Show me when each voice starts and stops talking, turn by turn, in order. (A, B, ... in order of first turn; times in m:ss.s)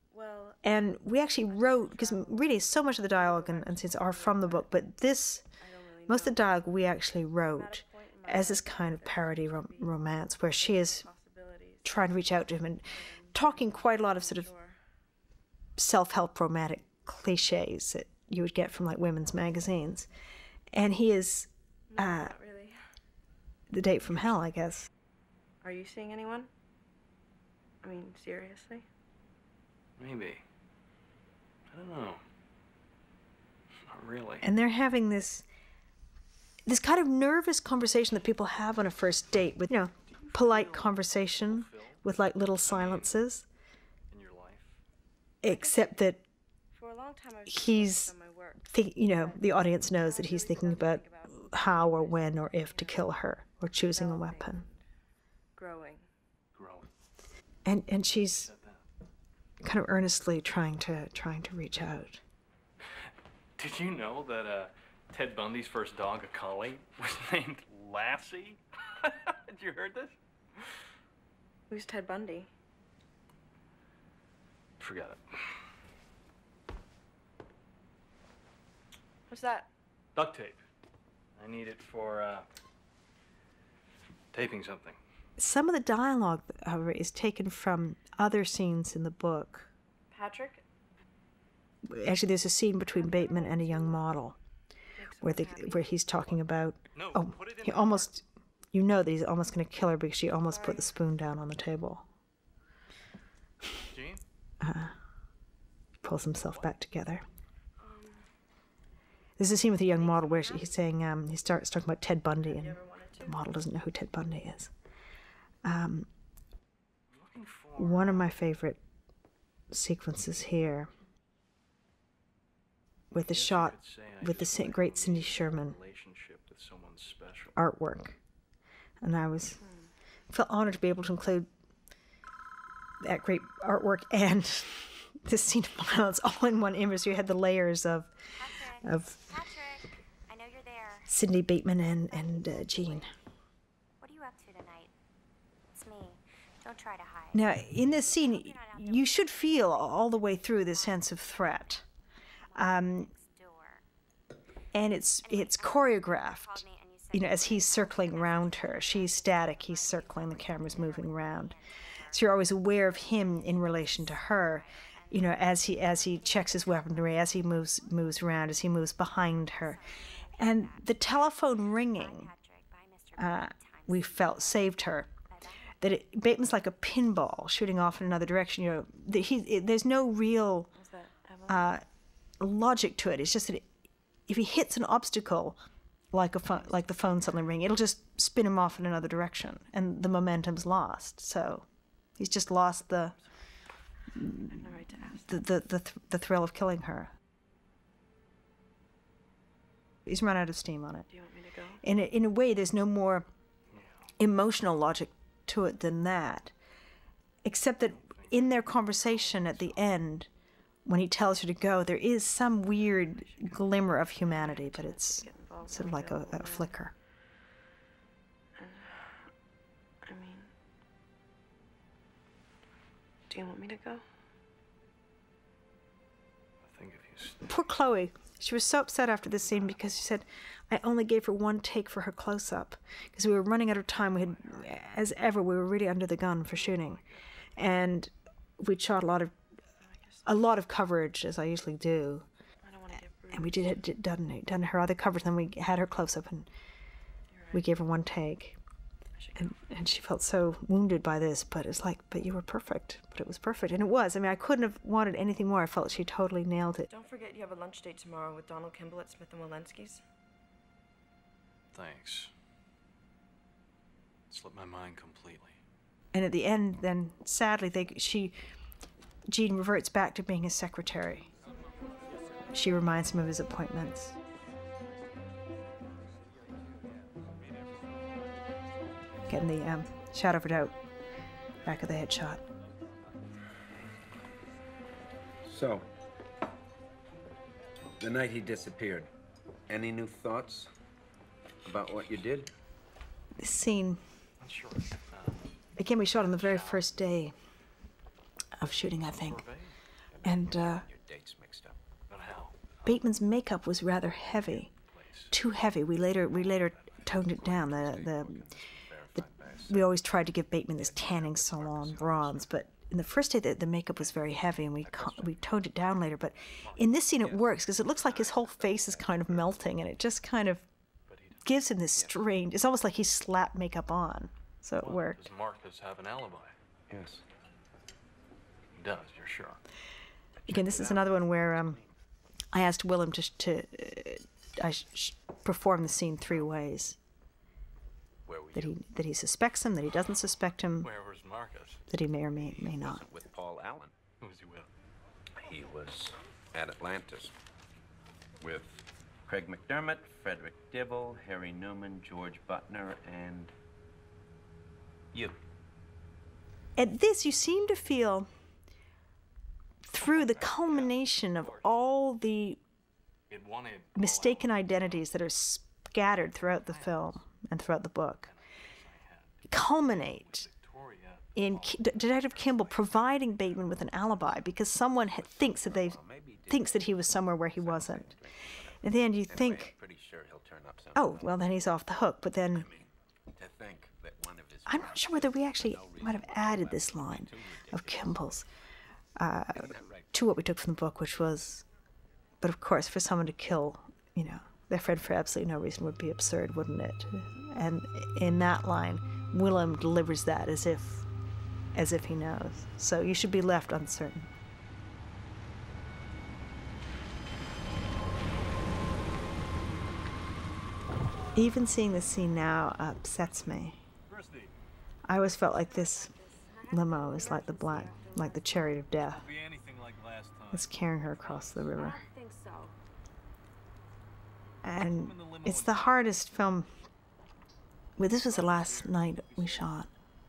0:00.1-0:00.6 A
0:00.6-0:05.4 B
0:01.4-0:04.7 A
0:05.6-0:06.5 A
0:06.1-0:11.0 B
0:07.5-0:14.8 A
0:11.8-0:14.5 B
0:15.8-0:20.1 B
0:20.7-0:22.3 B
0:21.9-0:22.8 A
0:23.7-0:24.9 B
0:25.6-0:26.5 A
0:27.8-0:28.8 A
0:30.0-0:30.4 C
0:31.7-0:32.2 C
0:33.8-0:34.5 C
0:34.4-0:35.4 B
0:36.6-0:43.4 B
0:40.1-0:42.0 C
0:42.6-0:43.2 C
0:44.1-0:44.8 C
0:45.4-0:46.2 B
0:45.4-0:46.0 A
0:46.7-0:53.2 A
0:47.4-0:48.1 B
0:48.6-0:54.6 B
0:53.8-0:54.7 A
0:55.5-0:56.1 A
0:56.5-0:56.9 C
0:57.6-0:58.5 B
0:58.3-0:58.8 C
0:59.6-1:02.2 B
1:03.6-1:10.1 C
1:11.7-1:12.5 A
1:14.8-1:15.6 C
1:19.3-1:19.7 A
1:20.1-1:20.6 C
1:21.4-1:22.4 C
1:24.3-1:25.0 C
1:25.4-1:29.7 B
1:30.1-1:30.6 A
1:31.9-1:34.4 B
1:32.9-1:34.0 A
1:35.0-1:36.3 A
1:35.2-1:42.0 B
1:36.9-1:38.1 C
1:40.5-1:40.9 A
1:43.8-1:44.2 C
1:44.6-1:44.9 B
1:46.0-1:47.2 B
1:47.8-1:48.2 A
1:49.4-1:54.7 B
1:49.8-1:50.8 A
1:52.4-1:53.6 A
1:55.6-1:56.1 B
1:57.1-1:58.3 C
1:57.8-1:58.8 B
1:59.7-2:00.9 B
2:03.1-2:05.8 B
2:03.3-2:07.5 C
2:07.6-2:08.2 B
2:09.0-2:09.6 B
2:09.6-2:09.9 A
2:10.3-2:11.5 B
2:13.0-2:18.1 B
2:18.4-2:21.1 D
2:18.8-2:19.3 B
2:21.1-2:23.1 B
2:22.1-2:23.1 D
2:24.0-2:24.9 D
2:25.7-2:27.4 D
2:27.3-2:31.8 B
2:28.0-2:29.8 D
2:32.5-2:33.1 B
2:32.5-2:33.8 D
2:34.7-2:41.6 B
2:35.2-2:48.2 D
2:42.1-2:49.8 B
2:49.6-2:54.7 D
2:50.4-2:52.3 B
2:53.2-2:55.1 B
2:55.8-3:00.7 B
3:00.7-3:01.7 A
3:01.5-3:01.8 B
3:02.4-3:03.6 B
3:04.3-3:05.6 B
3:06.1-3:11.6 B
3:12.2-3:13.2 B
3:14.1-3:14.7 B
3:14.5-3:15.4 A
3:15.2-3:17.1 B
3:20.0-3:21.1 B
3:21.1-3:21.8 A
3:21.8-3:23.3 B
3:24.2-3:26.5 B
3:27.4-3:30.3 B
3:28.0-3:29.8 C
3:30.9-3:36.9 B
3:33.0-3:36.7 A
3:38.6-3:39.2 A
3:40.0-3:40.5 A
3:43.3-3:44.0 A
3:46.6-3:47.5 C
3:47.4-3:57.0 B
3:56.6-3:57.1 C
3:57.6-3:59.3 B
3:59.9-4:00.2 A
4:00.2-4:02.2 B
4:02.6-4:03.7 A
4:03.3-4:06.5 B
4:07.3-4:07.6 A
4:07.5-4:08.6 B
4:09.2-4:09.5 A
4:09.4-4:16.9 B
4:16.9-4:20.0 A
4:21.7-4:22.3 C
4:24.3-4:25.6 C
4:26.1-4:28.3 B
4:29.3-4:31.3 B
4:32.5-4:34.1 B
4:39.3-4:40.8 B
4:41.6-4:42.4 B
4:45.4-4:45.9 E
4:48.0-4:49.1 E
4:49.7-4:50.7 E
4:51.6-4:52.5 E
4:53.4-4:54.0 B
4:54.4-4:55.5 C
4:55.8-4:57.3 B
4:56.2-4:56.9 C
4:58.6-4:59.4 B
4:59.0-4:59.8 C
5:00.1-5:01.8 E
5:00.2-5:00.9 B
5:02.1-5:03.2 C
5:02.8-5:04.7 B
5:04.0-5:05.3 C
5:05.3-5:08.4 B
5:06.8-5:09.9 E
5:09.1-5:20.6 B
5:10.8-5:12.5 E
5:15.0-5:15.3 C
5:16.6-5:17.4 C
5:18.1-5:19.3 E
5:21.1-5:21.7 C
5:21.4-5:25.2 B
5:24.8-5:26.5 C
5:26.9-5:27.2 E
5:28.7-5:29.6 C
5:30.4-5:31.0 E
5:30.5-5:31.8 B
5:32.5-5:37.0 B
5:38.2-5:38.8 E
5:38.5-5:40.9 B
5:40.8-5:41.8 C
5:41.9-5:43.0 B
5:42.4-5:43.9 E
5:44.2-5:44.7 C
5:45.4-5:47.3 E
5:48.4-5:53.5 E
5:56.8-5:58.3 B
5:59.9-6:02.6 B
5:59.9-6:01.8 C
6:03.3-6:05.0 C
6:04.0-6:08.3 B
6:06.5-6:07.2 C
6:08.3-6:09.3 C
6:09.5-6:10.5 B
6:10.0-6:13.2 C
6:11.3-6:18.1 B
6:15.3-6:21.5 E
6:18.8-6:19.7 B
6:20.9-6:22.7 B
6:22.5-6:28.3 E
6:24.6-6:28.5 B
6:29.2-6:31.6 B
6:29.5-6:30.0 E
6:32.4-6:41.0 B
6:41.7-6:44.3 B
6:51.3-6:53.8 B
6:54.1-6:54.5 C
6:55.1-6:56.1 B
6:55.3-6:58.8 D
6:56.7-6:59.2 B
6:59.0-7:01.6 C
7:00.5-7:02.0 B
7:01.7-7:02.7 D
7:04.6-7:06.7 B
7:04.8-7:06.0 C
7:08.0-7:09.9 B
7:08.3-7:09.7 C